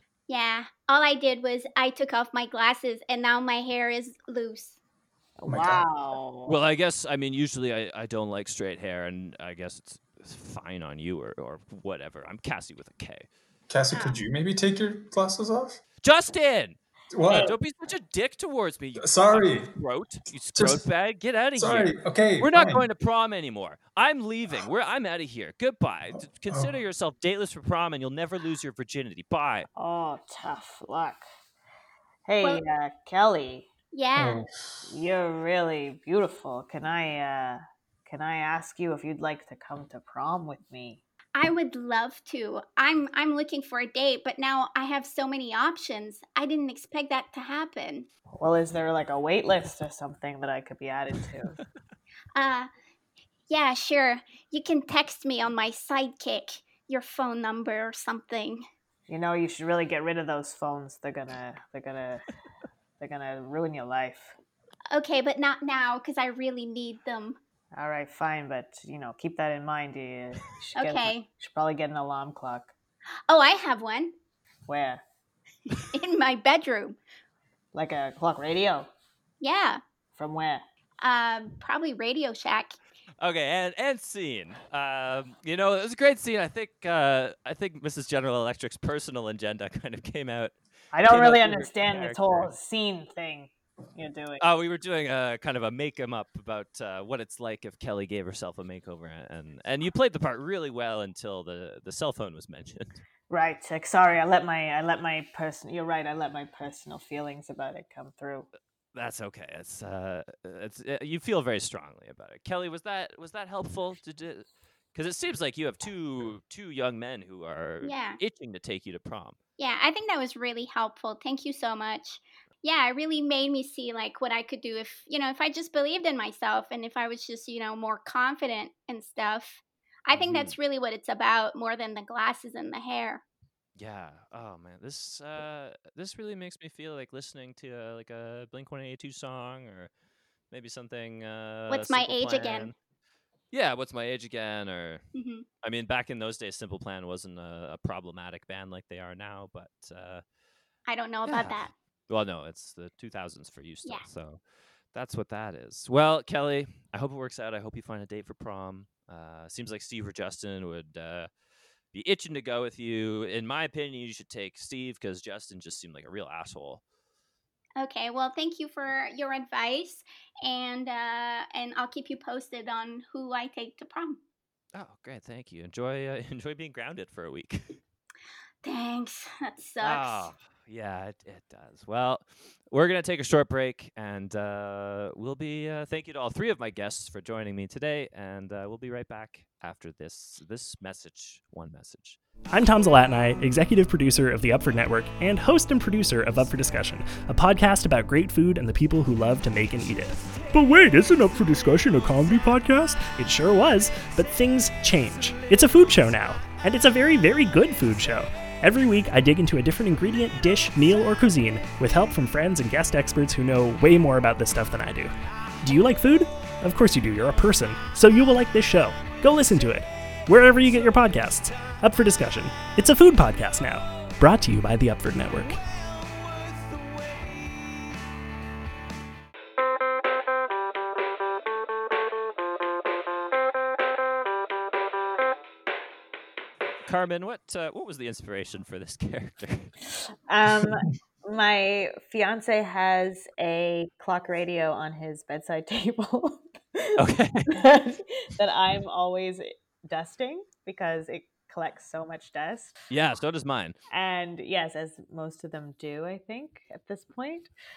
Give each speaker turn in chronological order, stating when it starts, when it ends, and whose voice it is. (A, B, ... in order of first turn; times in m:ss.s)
0:00.3-0:04.8 A
0:05.4-0:06.6 B
0:05.5-0:05.8 C
0:06.4-0:13.3 D
0:13.7-0:15.8 C
0:13.9-0:14.2 A
0:16.0-0:16.8 D
0:17.1-0:17.6 C
0:17.3-0:29.7 D
0:19.0-0:19.7 C
0:20.6-0:20.8 C
0:21.6-0:22.9 C
0:26.5-0:26.7 C
0:29.8-0:31.2 B
0:32.3-0:33.7 B
0:33.9-0:34.4 A
0:34.2-0:34.5 C
0:34.9-0:41.0 B
0:41.4-0:48.1 A
0:48.4-0:51.6 B
0:52.4-0:52.7 A
0:53.5-0:58.6 A
0:59.1-1:02.3 B
1:03.0-1:04.4 B
1:04.9-1:07.4 A
1:07.7-1:12.7 B
1:10.8-1:11.3 A
1:13.3-1:14.1 A
1:14.7-1:15.0 B
1:15.8-1:17.0 A
1:17.7-1:18.9 B
1:19.4-1:19.8 A
1:20.1-1:20.6 B
1:21.0-1:22.8 A
1:23.2-1:32.5 D
1:30.9-1:34.4 B
1:34.4-1:43.0 D
1:43.3-1:48.5 B
1:48.9-1:59.4 D
1:57.8-1:58.2 A
1:59.6-2:13.2 A
2:10.1-2:10.6 D
2:13.8-2:19.9 D
2:20.5-2:22.7 D
2:21.7-2:22.7 A
2:23.5-2:25.0 D
2:25.1-2:25.4 A
2:25.6-2:30.2 D
2:30.9-2:31.7 A
2:31.3-2:34.4 D
2:34.9-2:41.3 D
2:41.9-2:46.8 D
2:47.8-2:54.2 A
2:54.7-2:57.8 D
2:58.6-3:00.3 A
2:59.8-3:12.2 D
3:12.5-3:45.6 E
3:56.8-3:59.7 D
4:00.3-4:12.8 B
4:07.0-4:07.5 D
4:12.9-4:13.8 D
4:13.9-4:17.5 B